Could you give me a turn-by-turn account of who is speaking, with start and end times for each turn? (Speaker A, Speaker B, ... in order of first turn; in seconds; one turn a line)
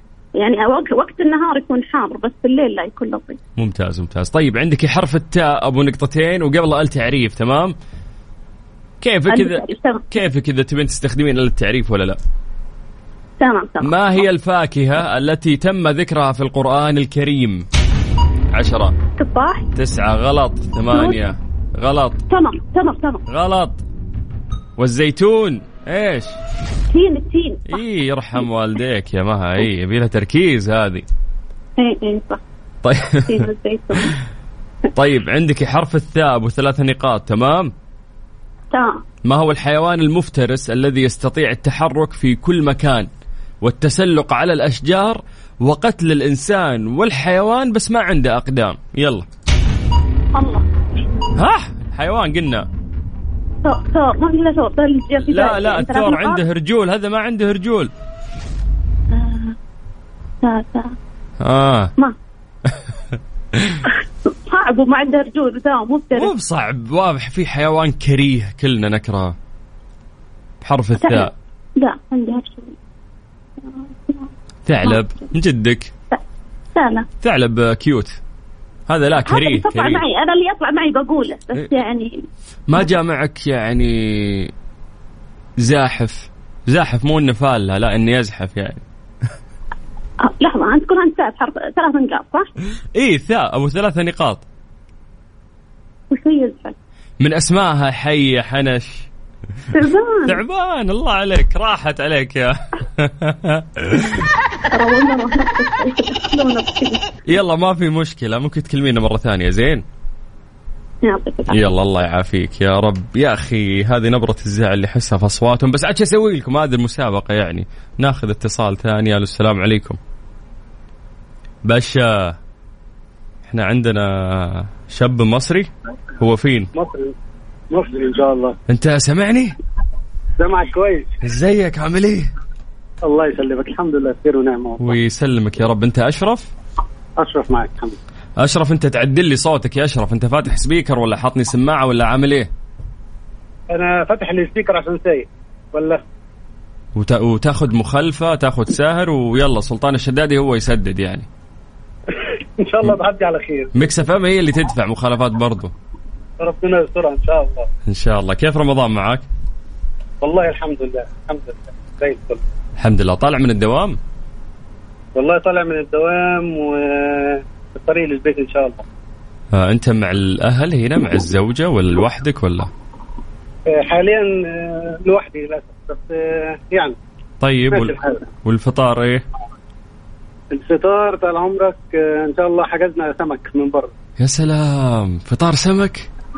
Speaker A: 0.4-3.4
Speaker B: 3.6-7.8
Speaker B: 9.0-12.2
Speaker A: 9.3-10.1
Speaker A: 13.4-13.9
Speaker B: 13.8-17.7
Speaker B: 18.5-18.9
Speaker A: 19.2-19.7
Speaker B: 19.8-22.2
Speaker A: 20.9-21.2
Speaker A: 22.3-23.2
Speaker B: 23.3-23.8
Speaker B: 24.8-26.4
Speaker A: 26.9-27.8
Speaker B: 27.7-31.1
Speaker A: 31.8-32.4
Speaker B: 32.8-33.5
Speaker A: 33.3-34.2
Speaker B: 34.9-37.7
Speaker A: 38.7-39.0
Speaker B: 39.2-43.1
Speaker B: 43.6-49.3
Speaker A: 50.3-50.7
Speaker B: 51.4-52.7
Speaker A: 53.6-56.4
Speaker B: 55.2-57.9
Speaker A: 59.1-59.6
Speaker A: 60.4-61.0
Speaker B: 61.4-61.9
Speaker B: 62.7-63.8
Speaker A: 63.9-66.3
Speaker B: 66.1-69.3
Speaker B: 70.6-71.3
Speaker A: 71.0-72.8
Speaker A: 73.6-74.3
Speaker B: 74.7-75.9
Speaker A: 74.8-75.3
Speaker A: 76.7-77.1
Speaker B: 77.2-78.2
Speaker B: 78.9-80.0
Speaker A: 79.2-82.2
Speaker B: 82.7-84.5
Speaker B: 85.6-88.8
Speaker A: 90.2-92.5
Speaker B: 92.9-94.4
Speaker A: 96.1-96.7
Speaker B: 97.2-99.1
Speaker A: 99.7-100.4
Speaker B: 100.3-104.3
Speaker A: 104.7-107.0
Speaker B: 107.3-109.8
Speaker A: 111.0-111.7
Speaker B: 111.5-120.0
Speaker B: 121.7-122.4
Speaker B: 123.4-126.7
Speaker C: 126.7-127.1
Speaker C: 127.7-128.6
Speaker B: 128.7-129.6
Speaker C: 130.4-131.1
Speaker B: 131.2-132.3
Speaker C: 133.0-134.9
Speaker B: 134.8-136.5
Speaker C: 137.2-138.0
Speaker B: 138.4-142.5
Speaker C: 143.7-146.0
Speaker B: 146.9-151.3
Speaker C: 152.2-153.7
Speaker B: 153.7-155.7
Speaker C: 156.4-157.7
Speaker B: 157.8-159.2
Speaker C: 160.2-162.4
Speaker B: 162.8-164.0
Speaker C: 165.2-168.8
Speaker B: 169.5-172.7
Speaker C: 173.7-176.9
Speaker B: 177.4-179.2
Speaker C: 177.7-178.3
Speaker C: 180.5-183.9
Speaker B: 184.2-186.1